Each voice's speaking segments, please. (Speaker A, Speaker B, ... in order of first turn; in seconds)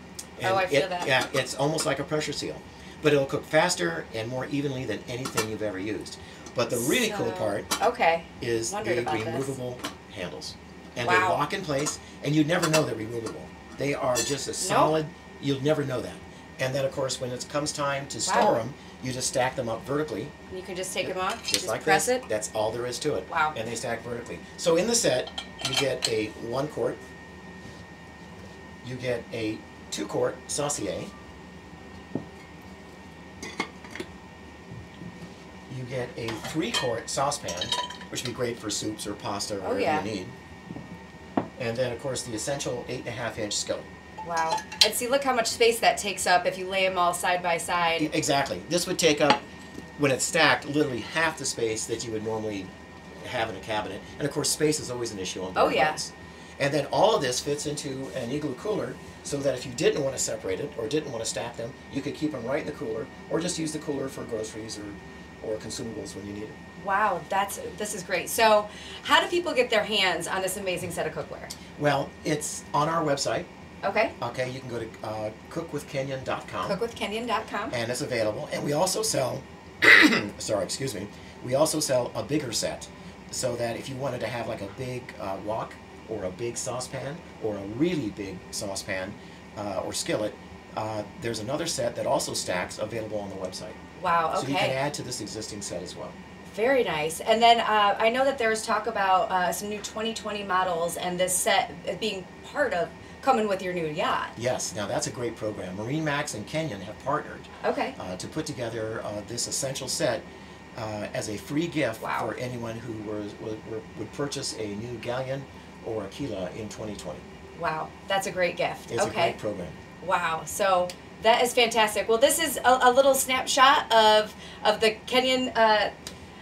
Speaker A: 0.4-7.7, 8.4-20.3, 21.0-27.0, 28.8-31.1, 35.7-40.3, 41.6-43.9, 48.0-49.4, 50.0-52.7, 53.2-66.6, 71.8-73.5, 74.2-76.8, 77.7-93.8, 94.3-96.2, 104.4-117.2, 118.9-119.8
Speaker B: 0.4-1.1, 6.7-9.6, 11.0-11.4, 14.6-14.9, 18.3-18.6, 20.5-22.2, 23.3-23.6, 39.6-40.1, 44.2-48.1, 55.5-56.0, 66.8-71.5, 73.8-74.2, 76.6-77.8, 94.0-94.8, 96.5-104.3, 107.6-108.0, 112.0-112.3, 117.5-119.4, 120.0-125.9